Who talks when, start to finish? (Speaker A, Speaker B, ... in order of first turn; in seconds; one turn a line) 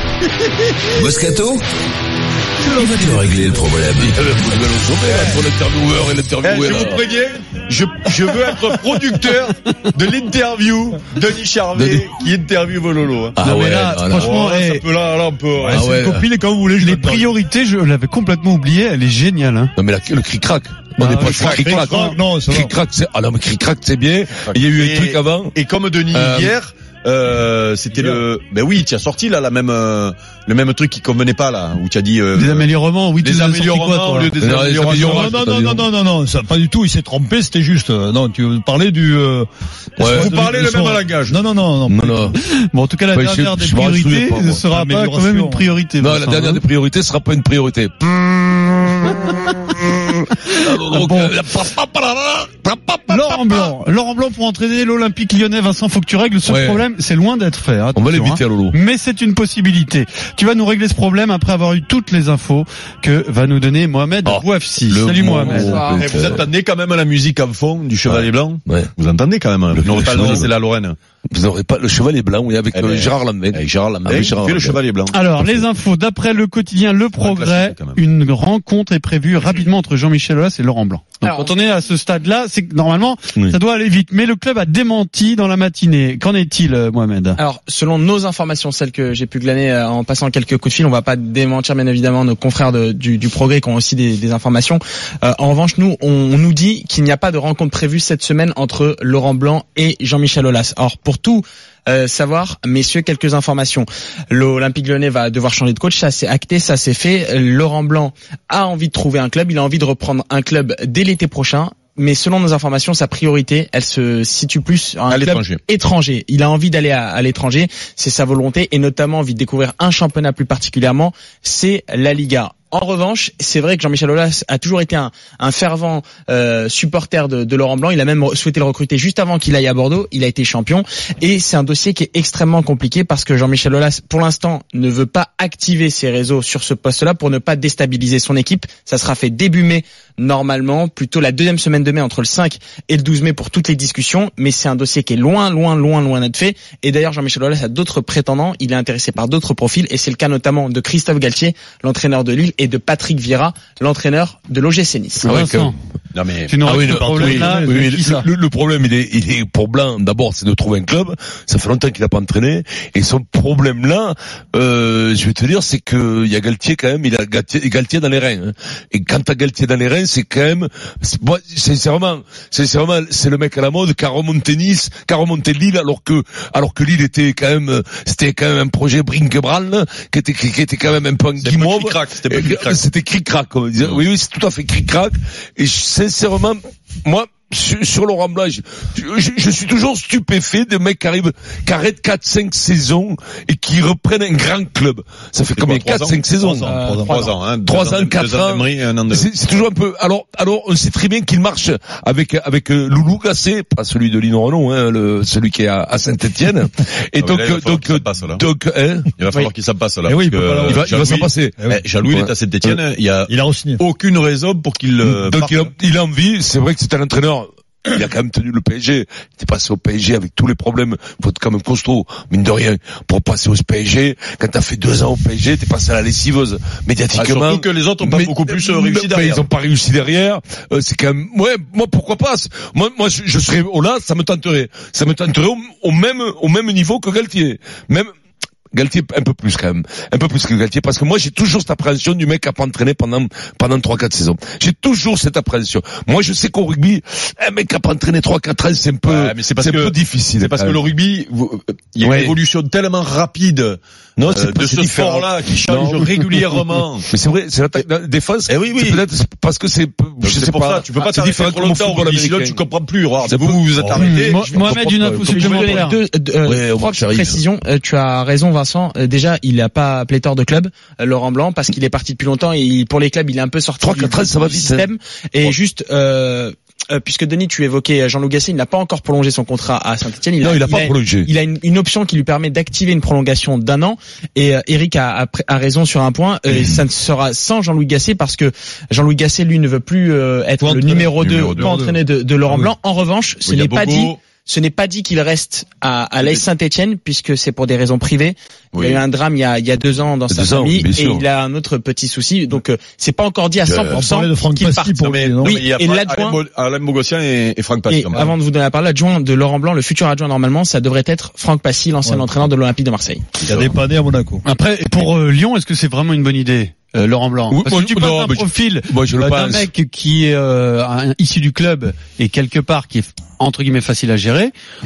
Speaker A: 0.9-1.6
Speaker B: 2.6-7.0
Speaker A: 2.8-4.2
Speaker C: 5.1-5.5
Speaker C: 6.4-13.4
Speaker B: 11.7-12.1
Speaker B: 13.4-14.3
Speaker D: 13.4-14.8
Speaker C: 14.2-15.8
Speaker E: 15.6-17.3
Speaker B: 15.7-16.3
Speaker D: 16.8-19.7
Speaker B: 19.8-25.5
Speaker D: 21.0-21.5
Speaker E: 21.0-22.7
Speaker C: 21.2-21.8
Speaker C: 24.4-35.4
Speaker B: 26.1-26.6
Speaker E: 27.9-28.2
Speaker D: 32.4-34.3
Speaker B: 34.4-35.9
Speaker E: 34.9-39.5
Speaker B: 40.0-40.3
Speaker C: 40.0-41.4
Speaker E: 40.0-42.3
Speaker B: 41.9-42.4
Speaker D: 42.4-46.6
Speaker B: 43.1-44.7
Speaker E: 44.6-45.7
Speaker B: 46.0-49.1
Speaker B: 50.4-53.7
Speaker D: 50.9-51.3
Speaker D: 53.1-65.9
Speaker B: 56.5-56.8
Speaker B: 58.0-58.8
Speaker B: 64.2-66.4
Speaker C: 65.4-71.0
Speaker F: 65.4-66.2
Speaker B: 68.1-68.9
Speaker B: 69.7-70.5
Speaker B: 71.3-74.8
Speaker C: 72.7-75.5
Speaker D: 75.1-87.4
Speaker C: 77.2-78.0
Speaker F: 81.2-81.5
Speaker F: 87.4-155.3
Speaker C: 115.1-115.6
Speaker B: 155.2-155.7
Speaker D: 155.2-155.8
Speaker C: 156.1-156.7
Speaker D: 156.5-158.3
Speaker B: 156.7-196.8
Speaker E: 157.0-157.7
Speaker C: 181.4-182.8
Speaker C: 195.5-196.3
Speaker E: 196.3-197.2
Speaker F: 196.6-197.4
Speaker C: 197.0-199.3
Speaker B: 197.7-209.1
Speaker C: 207.2-208.4
Speaker C: 209.2-215.7
Speaker E: 210.1-211.8
Speaker B: 210.7-212.8
Speaker E: 213.3-213.8
Speaker B: 215.1-238.1
Speaker C: 227.1-229.4
Speaker B: 238.7-250.8
Speaker C: 249.1-257.1
Speaker B: 252.0-252.3
Speaker B: 254.2-256.4
Speaker B: 257.1-262.6
Speaker C: 258.5-259.0
Speaker C: 260.2-264.6
Speaker B: 263.2-265.9
Speaker D: 264.0-266.0
Speaker F: 264.4-306.4
Speaker B: 266.4-267.4
Speaker B: 273.8-274.9
Speaker B: 280.4-281.3
Speaker B: 286.5-286.8
Speaker E: 290.6-292.7
Speaker C: 291.2-291.8
Speaker C: 293.4-294.2
Speaker C: 298.7-299.0
Speaker B: 300.3-301.3
Speaker B: 303.6-304.1
Speaker E: 303.9-305.6
Speaker C: 305.0-308.3
Speaker F: 307.9-313.4
Speaker C: 313.4-313.7
Speaker E: 313.5-314.4
Speaker D: 314.4-324.5
Speaker B: 317.5-319.7